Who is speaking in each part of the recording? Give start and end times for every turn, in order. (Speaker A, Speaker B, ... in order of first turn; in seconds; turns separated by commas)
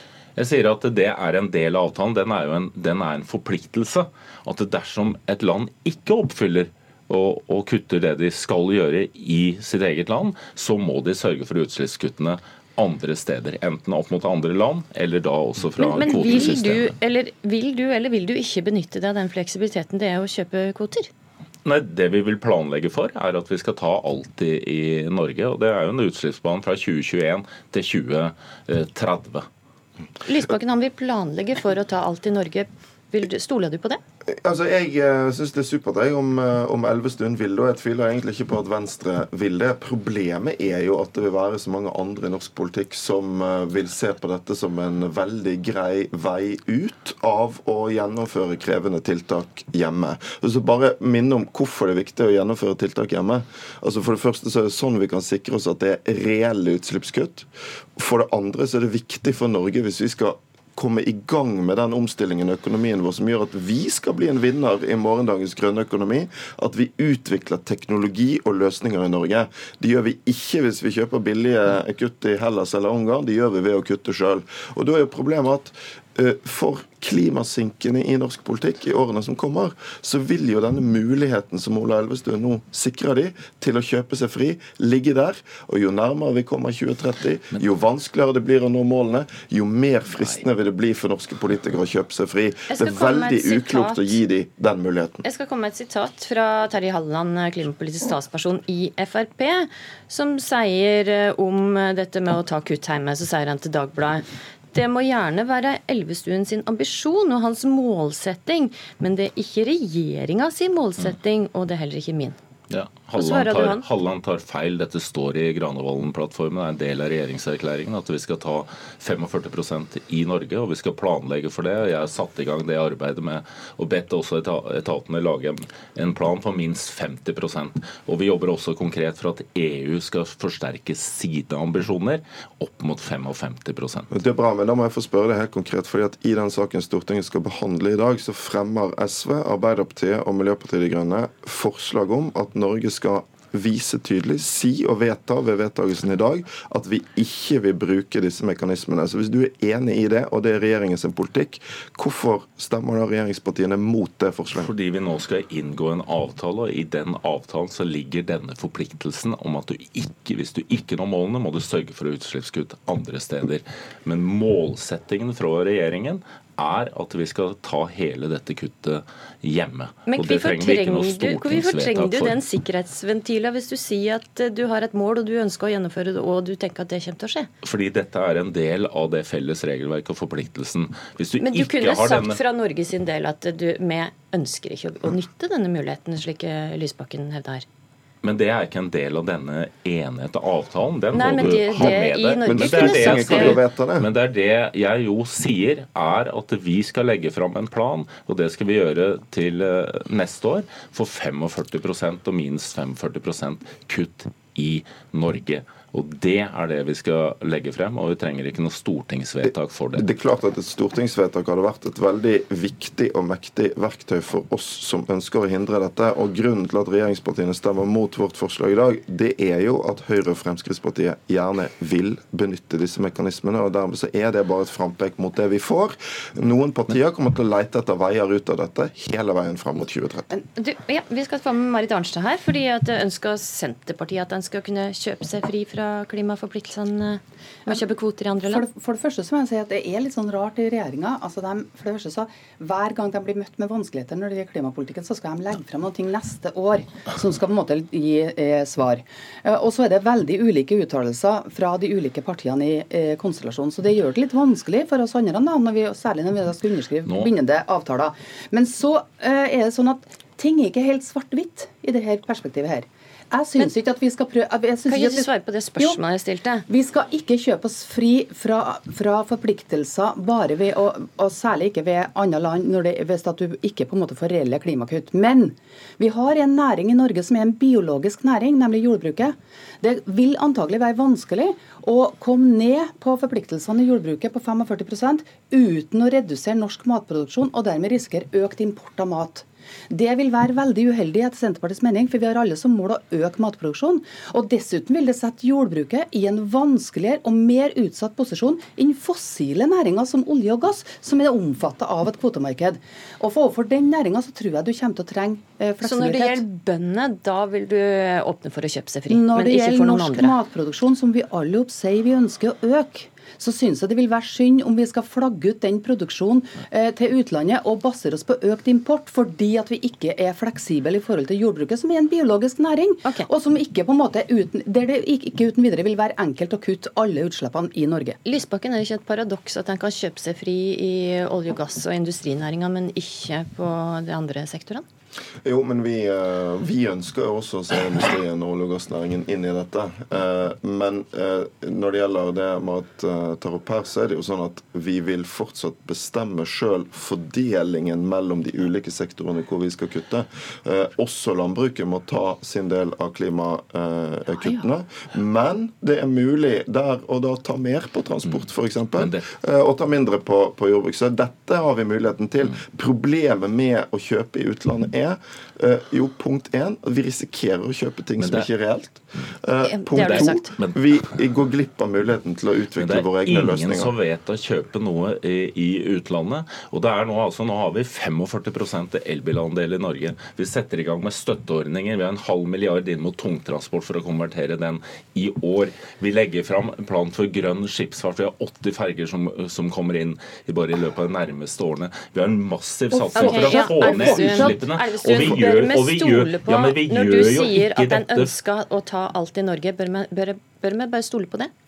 Speaker A: 0.4-16.9, Speaker B: 15.8-21.1, Speaker A: 21.6-29.5, Speaker B: 30.2-34.0, Speaker C: 34.3-95.2, Speaker B: 92.7-94.2, Speaker B: 95.2-112.4, Speaker A: 112.7-134.1, Speaker B: 113.2-113.8, Speaker C: 134.1-154.7, Speaker A: 154.6-172.4, Speaker B: 170.1-177.5, Speaker A: 177.6-182.4, Speaker B: 181.4-187.7, Speaker A: 188.2-210.1, Speaker B: 191.1-193.6, Speaker C: 192.5-194.1, Speaker C: 209.4-230.3, Speaker B: 230.6-238.7, Speaker D: 238.4-266.0, Speaker A: 257.1-257.3, Speaker B: 264.9-266.7, Speaker D: 266.7-306.4, Speaker B: 305.8-310.4, Speaker D: 309.1-328.2, Speaker B: 328.3-334.9, Speaker C: 335.4-373.9, Speaker A: 359.0-359.3, Speaker A: 368.2-368.5, Speaker B: 369.6-370.5, Speaker A: 369.9-370.9, Speaker A: 372.8-398.3, Speaker D: 392.9-394.7, Speaker B: 393.1-401.5